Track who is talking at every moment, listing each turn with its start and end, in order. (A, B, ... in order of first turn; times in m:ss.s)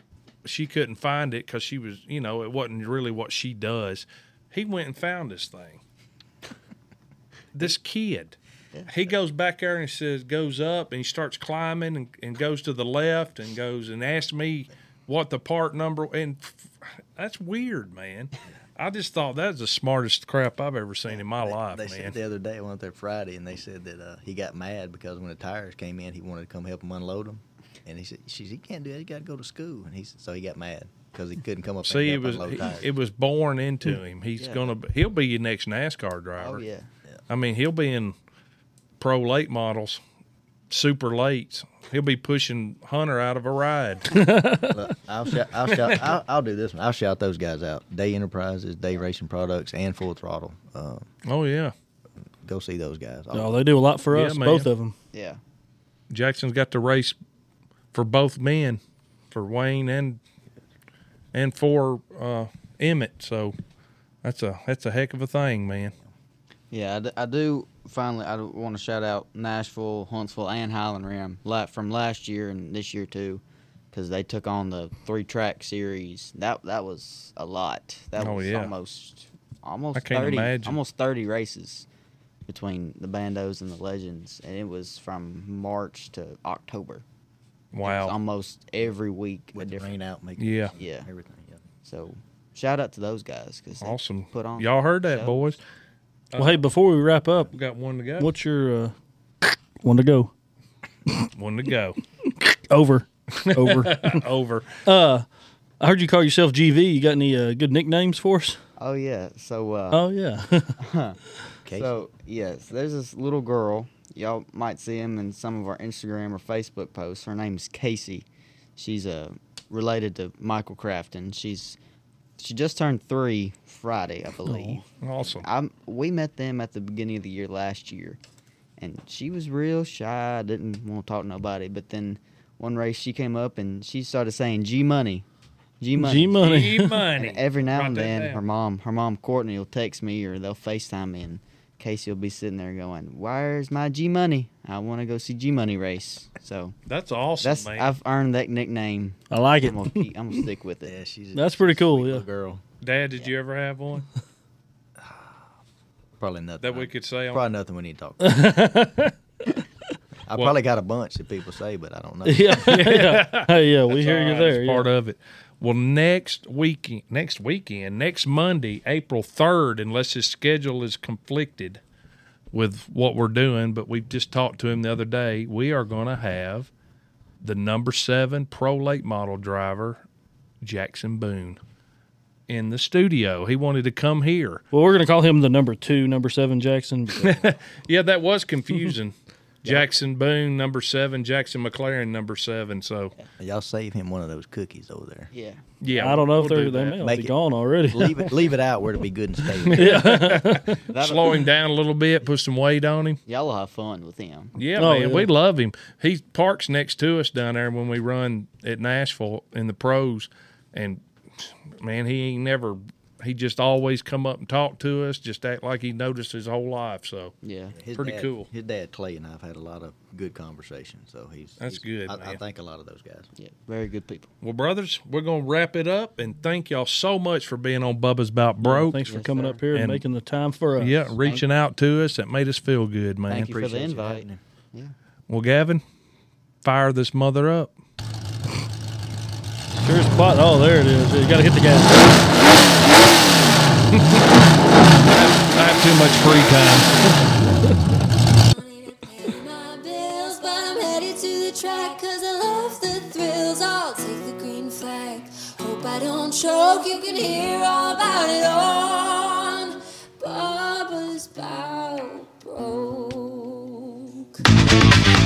0:00.4-0:05.8 A
0:07.5-0:22.2 A
0:21.3-0:32.9 B
0:31.8-0:36.6 A
0:34.4-0:34.8 C
0:36.4-0:36.9 C
0:37.3-0:38.2 A
0:39.0-0:40.0 A
0:40.7-0:44.2 A
0:44.1-0:44.9 D
0:44.7-0:51.1 B
0:45.7-0:46.0 A
0:51.2-0:51.7 A
0:52.4-0:53.6 B
0:53.3-0:54.9 D
0:54.1-0:54.7 A
0:55.1-0:55.4 C
0:56.1-0:57.2 A
0:57.9-0:58.8 A
0:59.3-1:00.2 A
1:01.3-1:03.6 A
1:04.2-1:06.0 A
1:06.7-1:21.9 C
1:18.2-1:18.7 A
1:20.0-1:20.8 A
1:22.5-1:27.0 C
1:27.7-1:28.2 A
1:27.8-1:29.9 C
1:29.5-1:31.6 B
1:30.4-1:30.7 A
1:30.8-1:31.1 C
1:31.8-1:35.4 C
1:33.8-1:35.6 A
1:36.3-1:36.6 A
1:36.4-1:37.5 D
1:37.5-1:38.3 A
1:38.2-1:40.3 D
1:41.3-1:42.0 A
1:42.3-1:44.2 D
1:43.3-1:44.8 A
1:44.8-1:45.2 D
1:45.8-1:48.6 D
1:48.8-1:50.1 C
1:49.9-1:50.8 D
1:50.8-1:51.2 C
1:51.6-1:51.9 B
1:51.7-2:01.8 C
2:02.4-2:08.2 C
2:04.5-2:04.8 D
2:04.9-2:05.5 A
2:08.8-2:15.2 C
2:15.8-2:16.4 C
2:16.0-2:17.0 D
2:16.4-2:18.4 A
2:17.2-2:26.8 C
2:26.9-2:27.9 A
2:27.4-2:30.9 C
2:29.3-2:30.1 D
2:30.8-2:32.6 B
2:31.3-2:32.2 D
2:32.8-2:34.1 A
2:35.0-2:35.4 B
2:36.2-2:38.7 B
2:36.6-2:37.4 A
2:38.2-2:39.6 D
2:40.3-2:42.7 B
2:42.2-2:44.9 D
2:42.6-2:51.8 A
2:52.5-2:56.7 A
2:57.4-3:00.0 A
3:00.6-3:01.6 A
3:02.5-3:04.6 A
3:04.7-3:07.4 D
3:07.1-3:13.1 A
3:13.4-3:15.3 B
3:15.3-3:15.6 C
3:15.8-3:17.0 A
3:15.9-3:18.3 D
3:17.0-3:17.4 B
3:17.9-3:20.1 B
3:19.6-3:23.2 A
3:19.7-3:20.8 D
3:20.9-3:21.5 C
3:23.3-3:24.6 C
3:24.6-3:37.3 A
3:24.8-3:25.3 D
3:37.4-3:37.8 C
3:37.8-3:43.3 B
3:37.9-3:38.5 A
3:41.6-3:42.4 A
3:43.4-3:44.3 C
3:44.4-3:49.0 A
3:48.6-3:51.1 D
3:49.0-3:49.6 C
3:49.7-3:50.0 A
3:50.8-3:53.6 A
3:53.3-3:55.0 C
3:53.6-3:54.4 B
3:55.3-3:55.8 A
3:56.6-3:57.7 A
3:59.8-4:02.4 D
4:03.9-4:04.3 A
4:05.0-4:07.2 A
4:08.1-4:24.4 E